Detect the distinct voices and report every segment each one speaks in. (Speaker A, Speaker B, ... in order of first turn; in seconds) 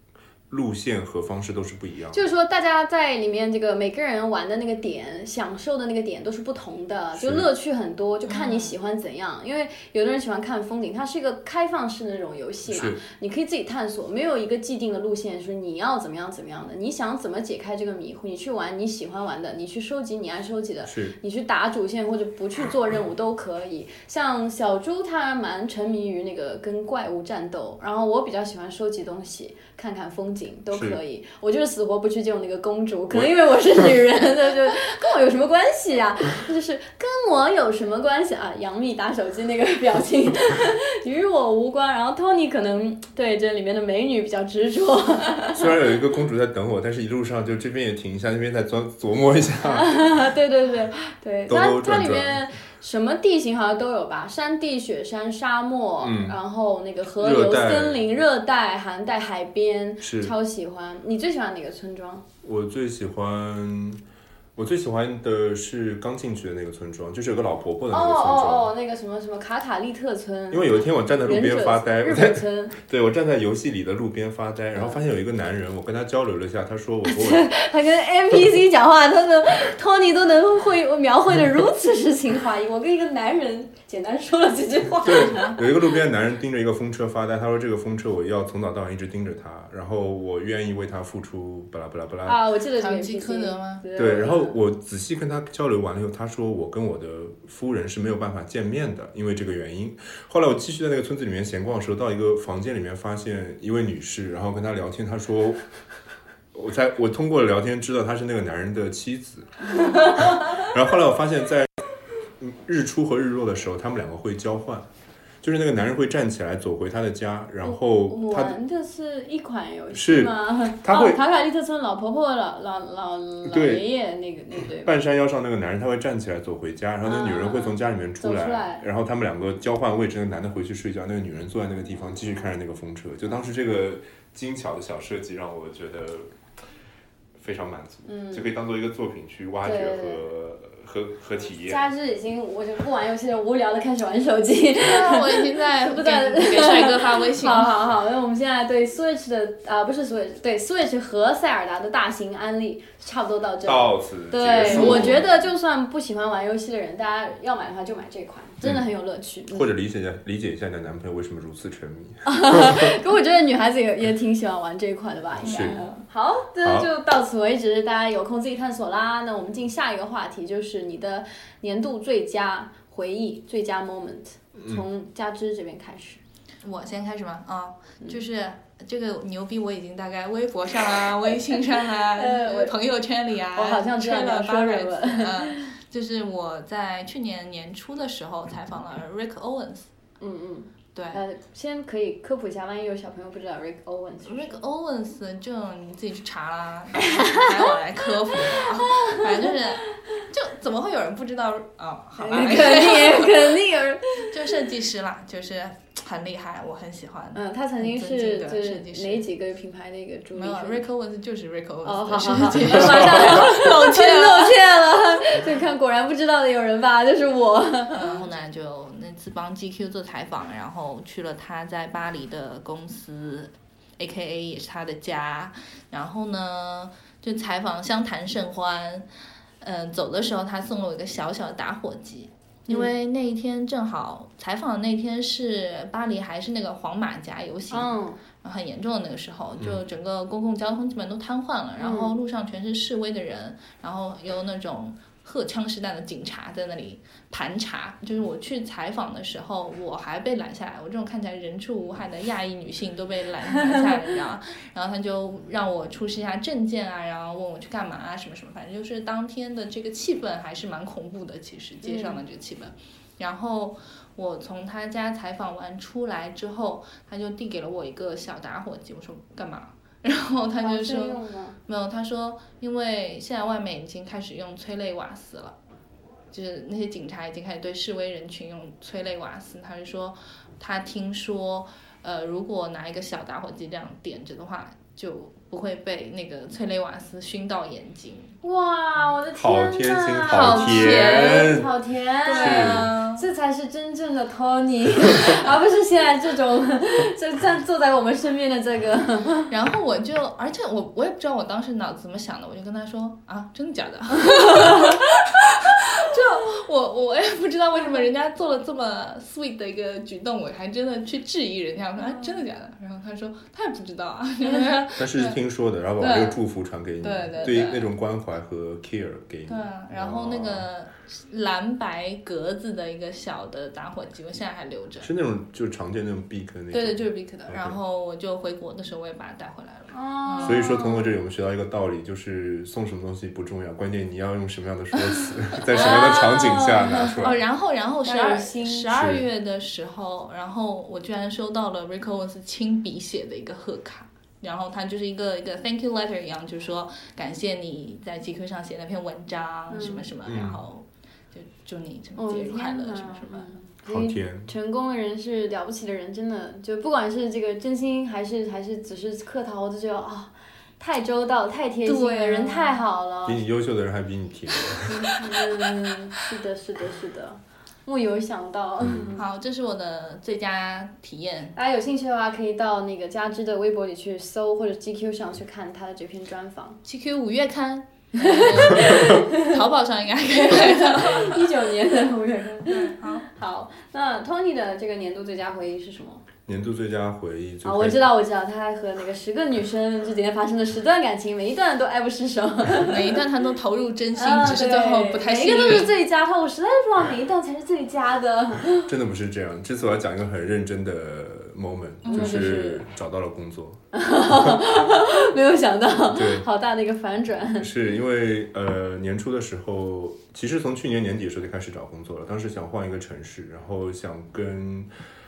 Speaker A: 0.5-2.2, 7.1-7.5, 12.7-13.0, 20.9-21.1, 30.7-31.0, 33.1-33.8, 45.5-50.0, 51.5-52.4, 56.0-56.4, 57.2-58.0, 60.0-60.3, 62.4-64.0, 64.5-68.7, 70.5-77.5, 85.0-92.4, 94.0-105.6, 106.5-111.7, 112.4-114.9, 115.4-118.6, 119.9-121.2, 123.5-123.8, 124.8-136.3, 137.4-141.8, 153.6-155.2, 159.5-163.0, 165.4-165.8, 166.6-166.9, 174.6-174.8, 289.3-291.7, 292.4-292.9, 315.0-320.7, 325.0-327.8, 330.4-337.4, 338.9-339.2, 350.2-350.6, 353.9-354.5, 363.2-365.2, 368.8-369.1, 386.4-388.0, 398.8-404.6, 406.1-406.5, 407.6-414.9
Speaker B: 2.1-45.7, 49.6-62.2, 67.9-72.8, 77.1-85.7, 92.2-94.5, 109.8-110.5, 117.6-124.9, 127.0-128.8, 138.1-138.5, 139.6-140.2, 141.7-159.7, 162.2-176.2, 182.1-182.8, 183.5-185.7, 190.2-194.6, 197.0-197.6, 198.4-199.6, 202.2-204.3, 207.3-210.8, 211.8-218.2, 237.7-238.2, 241.8-242.1, 261.8-262.2, 270.6-271.6, 288.4-299.5, 304.4-304.8, 329.9-331.1, 335.7-337.3, 338.0-338.9, 349.7-350.1, 352.2-363.4, 364.8-369.2, 371.6-376.8, 378.1-379.6, 380.4-386.2, 387.6-393.2, 394.1-398.9, 402.1-402.8, 403.9-407.7
Speaker C: 8.3-8.7, 92.8-93.8, 109.7-110.0, 144.7-147.7, 154.6-155.2, 165.4-165.9, 176.6-189.9, 190.9-191.2, 194.2-203.6, 204.3-209.2, 210.3-215.2, 217.9-229.1, 229.6-275.5, 276.3-288.3, 290.2-291.5, 292.2-293.2, 299.5-315.4, 316.0-316.4, 317.0-317.9, 319.5-325.1, 326.7-330.7, 335.6-336.3, 337.2-353.5, 361.8-362.8, 369.1-371.6, 376.8-381.5, 382.6-383.3, 392.8-395.9, 402.1-402.4